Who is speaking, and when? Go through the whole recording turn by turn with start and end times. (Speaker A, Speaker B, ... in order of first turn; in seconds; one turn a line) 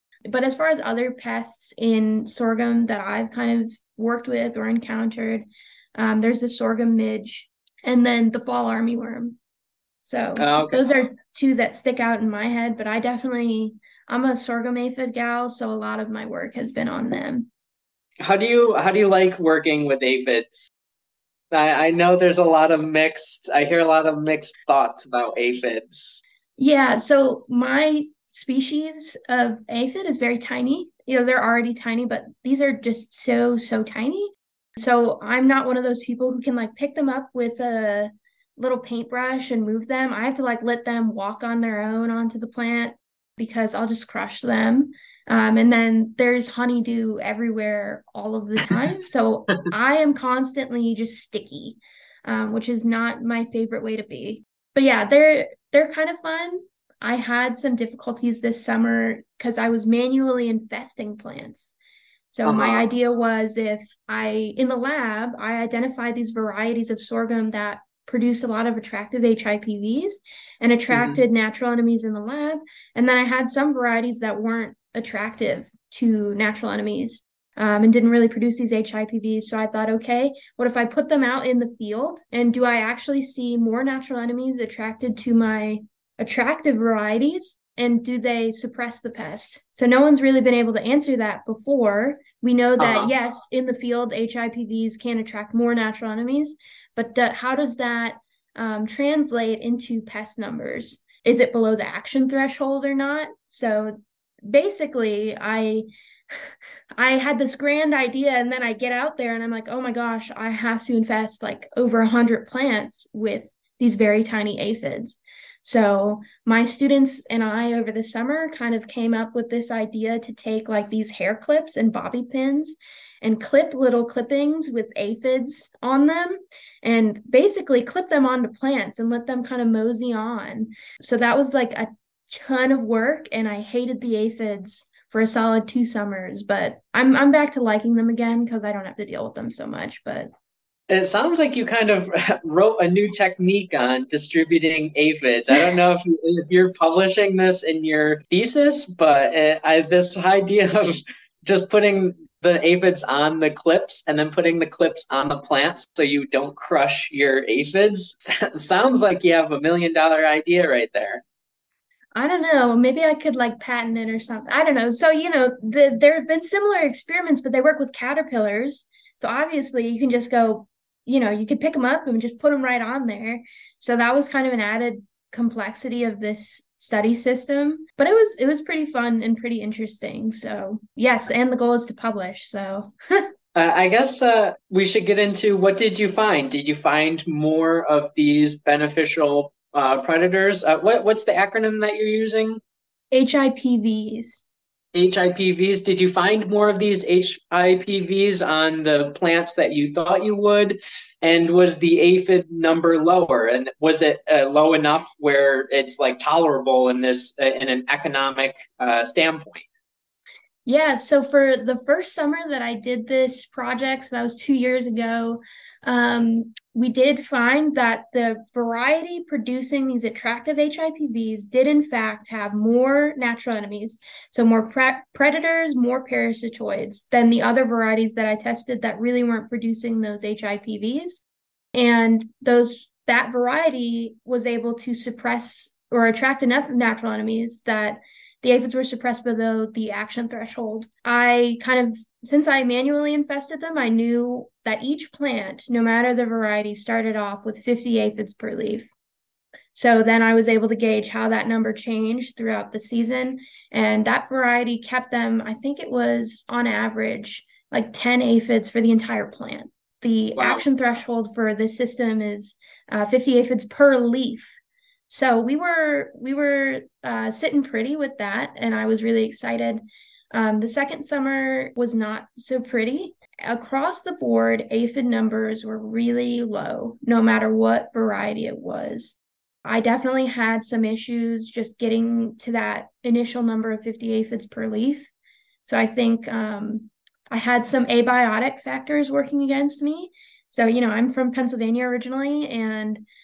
Speaker A: 0.3-5.5
Speaker A: 6.0-9.4
Speaker A: 10.0-17.5
Speaker B: 10.4-10.8
Speaker B: 18.2-20.7
Speaker B: 21.5-26.2
Speaker A: 26.6-61.8
Speaker A: 62.3-105.8
Speaker B: 62.4-62.9
Speaker B: 70.9-71.2
Speaker B: 92.8-93.1
Speaker A: 107.0-140.3
Speaker B: 140.9-161.2
Speaker A: 162.1-183.2
Speaker B: 183.5-192.6
Speaker A: 193.1-194.4
Speaker B: 194.9-209.6
Speaker A: 210.7-231.2
Speaker A: 231.7-248.9
Speaker A: 249.7-264.6
Speaker B: 260.4-260.6
Speaker A: 265.1-269.8
Speaker A: 270.3-285.1
Speaker A: 285.6-293.0